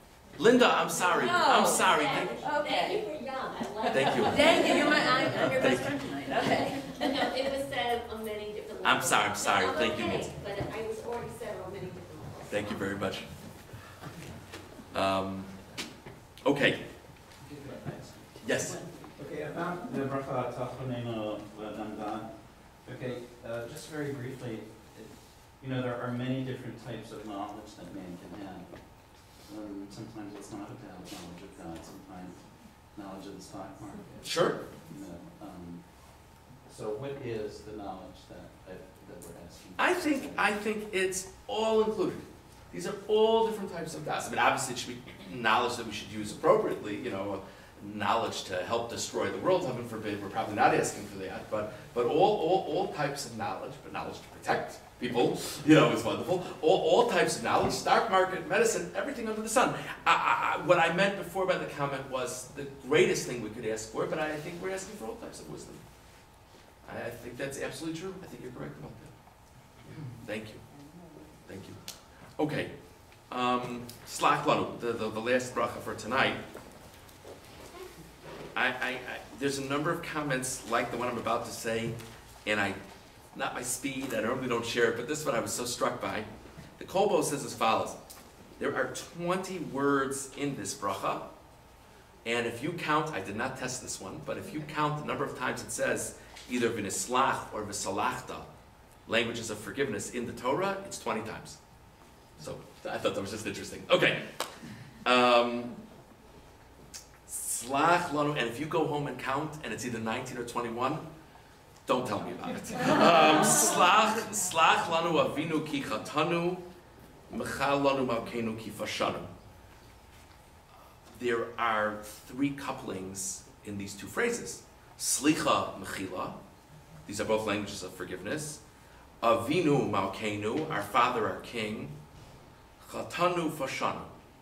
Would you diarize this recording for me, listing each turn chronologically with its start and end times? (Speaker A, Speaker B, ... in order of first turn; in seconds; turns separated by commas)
Speaker A: 0.4-2.4, Speaker B: 0.5-5.8, Speaker C: 1.1-3.2, Speaker C: 3.8-7.3, Speaker A: 3.9-4.5, Speaker A: 5.4-6.0, Speaker B: 6.3-13.0, Speaker A: 8.8-10.3, Speaker A: 12.5-13.5, Speaker A: 14.9-15.7, Speaker A: 16.4-16.9, Speaker D: 17.5-18.2, Speaker A: 18.4-18.8, Speaker D: 19.1-40.5, Speaker A: 34.2-34.6, Speaker A: 39.8-69.2, Speaker A: 70.0-70.7, Speaker C: 70.7-71.6, Speaker A: 71.5-76.4, Speaker A: 78.5-82.8, Speaker A: 83.3-86.3, Speaker A: 86.8-88.0, Speaker A: 88.6-91.4, Speaker A: 92.2-98.5, Speaker A: 99.1-101.6, Speaker A: 102.4-105.8, Speaker A: 107.3-111.0, Speaker A: 111.9-116.6, Speaker A: 117.3-119.3, Speaker A: 121.1-126.4, Speaker A: 127.1-128.6, Speaker A: 129.2-132.0, Speaker A: 132.8-134.1